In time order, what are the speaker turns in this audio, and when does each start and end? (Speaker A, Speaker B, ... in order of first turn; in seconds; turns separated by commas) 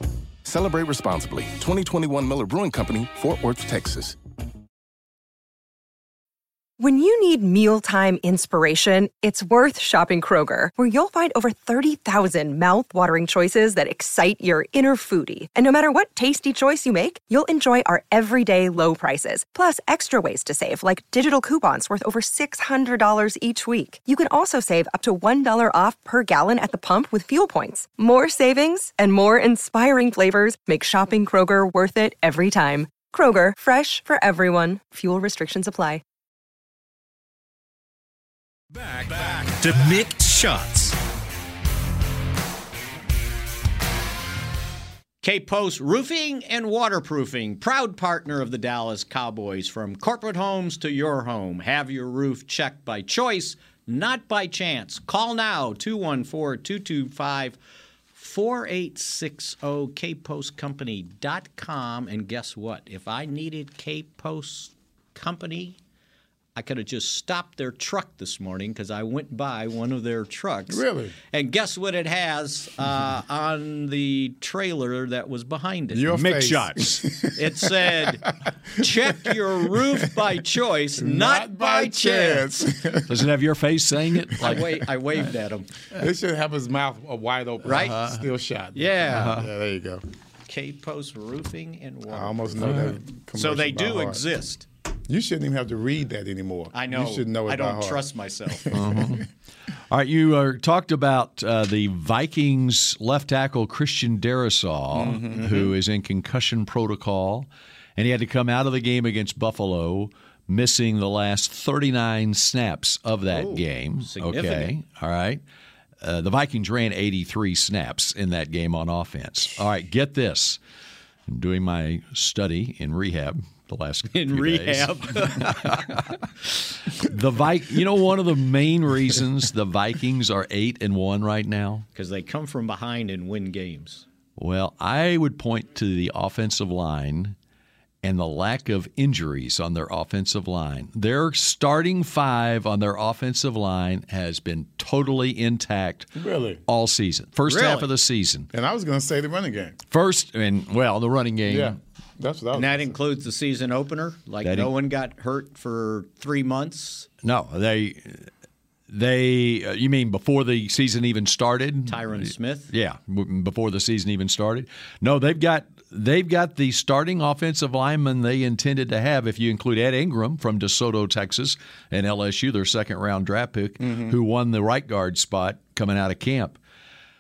Speaker A: 0.4-4.2, Speaker B: 6.8-36.0, Speaker C: 38.7-41.0, Speaker D: 45.2-57.6, Speaker D: 58.1-65.8, Speaker D: 66.6-76.1, Speaker E: 70.7-71.2, Speaker E: 75.9-78.2, Speaker F: 76.1-77.1, Speaker D: 77.3-82.5, Speaker E: 78.8-79.8, Speaker E: 81.0-83.3, Speaker F: 83.1-84.9, Speaker D: 84.4-85.7, Speaker E: 85.9-90.0, Speaker D: 87.7-88.0, Speaker F: 87.7-88.2, Speaker D: 88.8-89.4, Speaker F: 89.1-89.5, Speaker D: 90.5-94.7, Speaker E: 92.1-94.2, Speaker F: 92.6-93.0, Speaker E: 95.1-99.2, Speaker D: 96.7-98.8, Speaker F: 98.7-99.3, Speaker F: 99.9-115.4, Speaker E: 104.9-105.7, Speaker D: 105.3-105.7, Speaker D: 113.3-114.7, Speaker F: 116.0-120.6, Speaker F: 121.3-126.2, Speaker D: 124.1-126.0, Speaker F: 126.9-131.8, Speaker D: 131.9-134.1, Speaker F: 134.4-137.3, Speaker F: 138.0-146.1, Speaker E: 146.2-146.6, Speaker F: 146.7-148.5, Speaker D: 147.5-147.9, Speaker E: 148.5-149.8, Speaker F: 149.9-151.8, Speaker E: 151.5-153.0, Speaker D: 152.5-157.1, Speaker F: 154.4-154.7, Speaker F: 157.2-158.3, Speaker F: 158.9-176.6, Speaker D: 161.9-162.7, Speaker E: 173.8-174.2